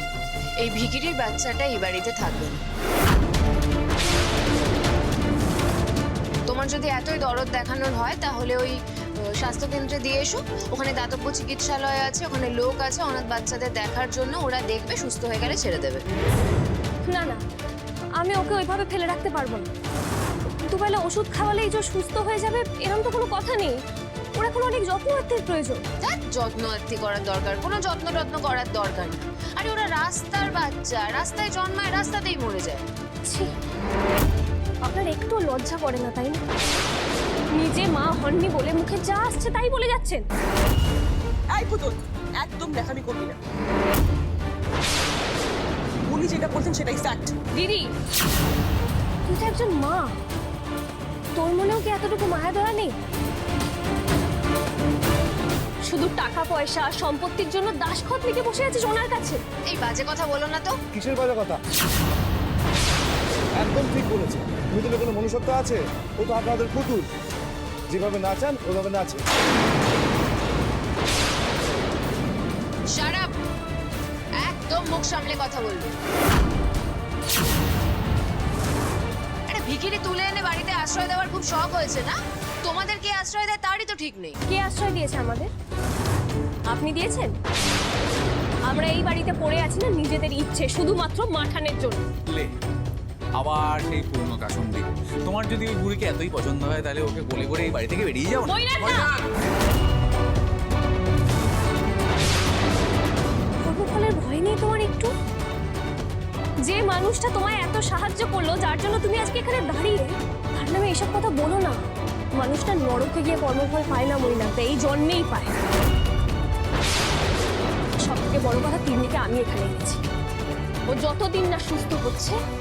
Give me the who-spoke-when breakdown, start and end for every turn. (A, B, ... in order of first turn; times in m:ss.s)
0:00.6-0:02.6 A
0:06.5-0:16.0 A
0:17.1-0:17.4 B
0:18.2-0:19.7 B
0:20.6-0:23.8 B
0:24.3-0:25.8 B
0:26.0-0:32.8 A
0:34.8-0:36.4 B
0:37.5-0:40.2 B
0:41.5-0:43.4 C
0:46.1-0:47.3 C
0:47.5-0:47.9 B
0:49.2-0:50.1 B
0:51.4-0:52.9 B
0:55.9-0:59.4 B
0:59.7-1:00.8 A
1:00.9-1:01.6 D
1:03.6-1:07.1 D
1:07.9-1:09.2 D
1:12.9-1:13.3 A
1:14.4-1:15.9 A
1:19.5-1:24.4 A
1:24.5-1:25.5 B
1:26.7-1:27.3 B
1:28.7-1:32.0 B
1:33.4-1:39.0 E
1:38.4-1:39.1 B
1:43.6-1:45.1 B
1:46.6-1:51.8 B
1:52.4-1:55.5 B
1:58.0-2:00.0 B
2:00.9-2:02.4 B